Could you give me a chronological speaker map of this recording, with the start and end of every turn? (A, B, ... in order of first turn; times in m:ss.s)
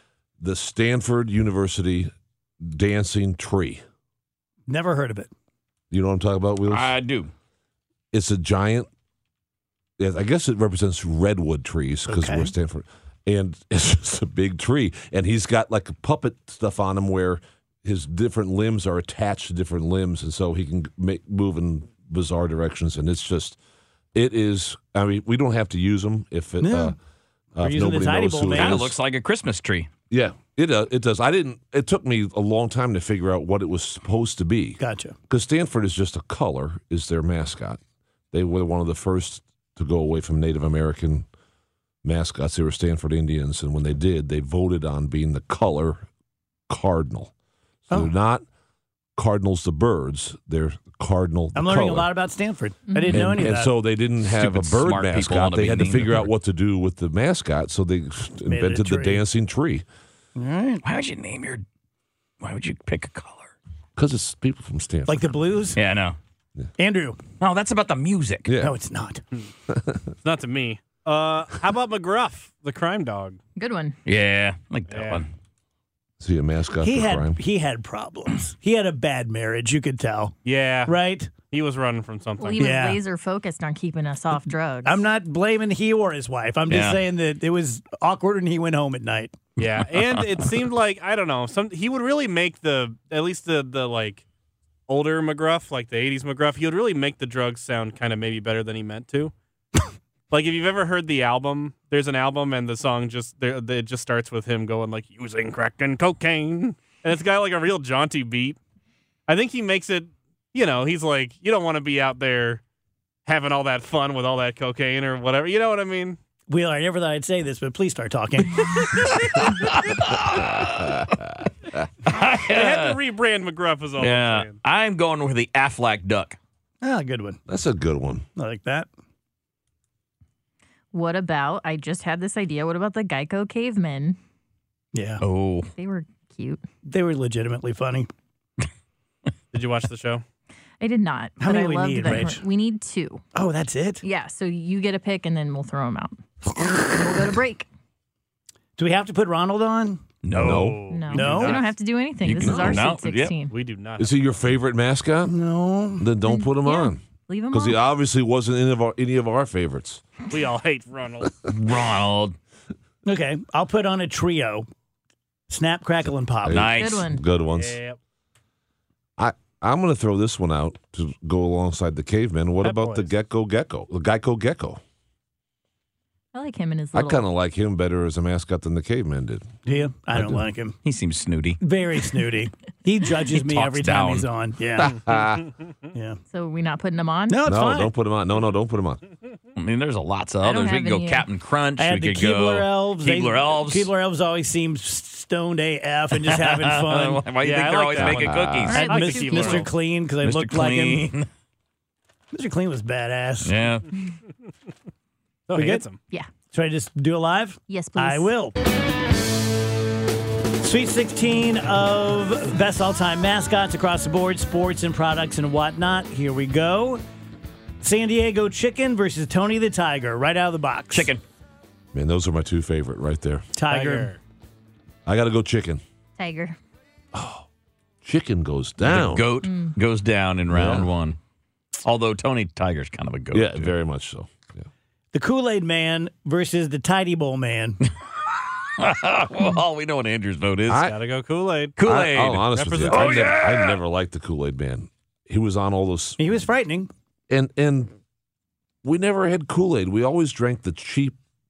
0:00.4-0:03.8 A
0:04.7-0:05.3 B
0:05.9-0:06.9 A
0:06.7-0:07.3 C
0:08.1-0:08.9 A
0:10.0-0:23.6 A
0:12.1-0:12.5 B
0:24.1-0:27.0 A
0:26.6-0:27.0 B
0:27.6-0:29.0 A
0:27.6-0:28.9 B
0:28.6-0:29.9 C
0:30.1-0:37.8 A
0:34.8-0:35.2 B
0:38.3-0:41.2 A
0:42.0-0:46.1 A
0:46.7-0:47.3 A
0:47.9-0:48.4 A
0:49.2-0:52.1 A
0:51.6-0:53.7 B
0:52.9-0:53.4 D
0:53.1-0:59.8 A
0:54.2-0:56.3 C
0:58.5-0:59.2 B
1:00.4-1:00.8 B
1:00.8-1:01.6 C
1:02.4-1:03.5 C
1:04.0-1:05.3 A
1:05.1-1:05.8 B
1:05.8-1:06.2 C
1:06.8-1:07.2 B
1:07.4-1:08.5 C
1:08.5-1:08.7 A
1:08.6-1:09.2 B
1:09.7-1:10.0 A
1:10.2-1:13.4 E
1:13.6-1:14.0 D
1:14.0-1:15.3 C
1:14.9-1:15.2 E
1:16.2-1:17.4 A
1:16.8-1:20.3 B
1:20.4-1:22.7 E
1:20.9-1:21.3 B
1:22.4-1:25.0 D
1:22.6-1:23.0 B
1:24.8-1:29.4 B
1:26.7-1:27.0 C
1:29.6-1:34.2 E
1:34.9-1:39.3 E
1:40.3-1:48.6 E
1:49.3-1:52.6 E
1:53.2-1:56.2 E
1:56.5-1:59.0 B
1:59.9-2:01.1 C
2:00.6-2:01.1 A
2:02.1-2:03.0 C
2:02.4-2:04.6 E
2:04.0-2:06.4 C
2:06.8-2:07.4 B
2:07.5-2:08.2 A
2:08.4-2:08.9 B
2:10.9-2:14.2 D
2:14.9-2:15.2 B
2:15.2-2:15.7 C
2:15.8-2:16.6 D
2:16.9-2:18.1 B
2:19.5-2:20.2 E
2:20.8-2:23.2 D
2:21.4-2:22.4 B
2:23.4-2:24.0 B
2:24.0-2:27.7 D
2:28.8-2:31.6 B
2:30.2-2:30.8 C
2:30.4-2:30.8 A
2:30.9-2:33.5 D
2:30.9-2:31.8 E
2:32.2-2:33.4 C
2:32.4-2:32.7 A
2:33.5-2:34.4 E
2:34.0-2:35.4 A
2:35.2-2:36.1 B
2:36.0-2:40.0 A
2:36.2-2:37.8 D
2:40.3-2:41.4 E
2:41.5-2:42.4 C
2:43.1-2:44.7 B
2:45.5-2:46.7 B
2:46.4-2:47.8 A
2:46.5-2:47.1 C
2:46.7-2:47.2 D
2:47.4-2:48.0 E
2:49.2-2:54.8 A
2:52.6-2:53.1 E
2:56.3-2:57.2 D
2:56.9-2:59.5 A
2:59.6-3:00.8 B
3:00.8-3:01.6 C
3:01.6-3:05.0 B
3:03.3-3:04.3 C
3:04.8-3:05.4 A
3:05.9-3:06.2 B
3:06.3-3:07.4 D
3:07.3-3:07.9 B
3:07.4-3:09.0 A
3:09.6-3:13.9 C
3:10.4-3:11.3 D
3:11.8-3:17.2 B
3:16.2-3:18.9 C
3:17.4-3:19.7 E
3:18.0-3:18.6 A
3:18.7-3:19.7 D
3:18.7-3:21.2 B
3:20.2-3:21.3 C
3:22.3-3:23.5 B
3:23.4-3:23.9 C
3:25.5-3:26.0 E
3:25.5-3:25.8 B
3:26.5-3:28.6 B
3:27.7-3:28.3 D
3:30.6-3:37.0 B
3:37.8-3:41.1 B
3:40.9-3:41.2 C
3:41.9-3:43.5 A
3:43.6-3:44.1 B
3:43.6-3:44.2 E
3:45.1-3:45.8 A
3:46.2-3:46.6 D
3:47.1-3:47.5 A
3:48.0-3:49.4 A
3:48.8-3:51.2 C
3:49.4-3:49.8 D
3:50.5-3:50.9 A
3:51.8-3:53.7 C
3:53.3-3:54.6 A
3:55.1-3:57.8 B
3:58.8-4:00.9 C
4:00.7-4:01.0 A
4:00.8-4:01.8 E
4:01.8-4:03.8 C
4:01.8-4:06.3 A
4:02.5-4:03.4 E
4:06.2-4:06.9 B
4:07.3-4:07.9 A
4:08.8-4:11.2 A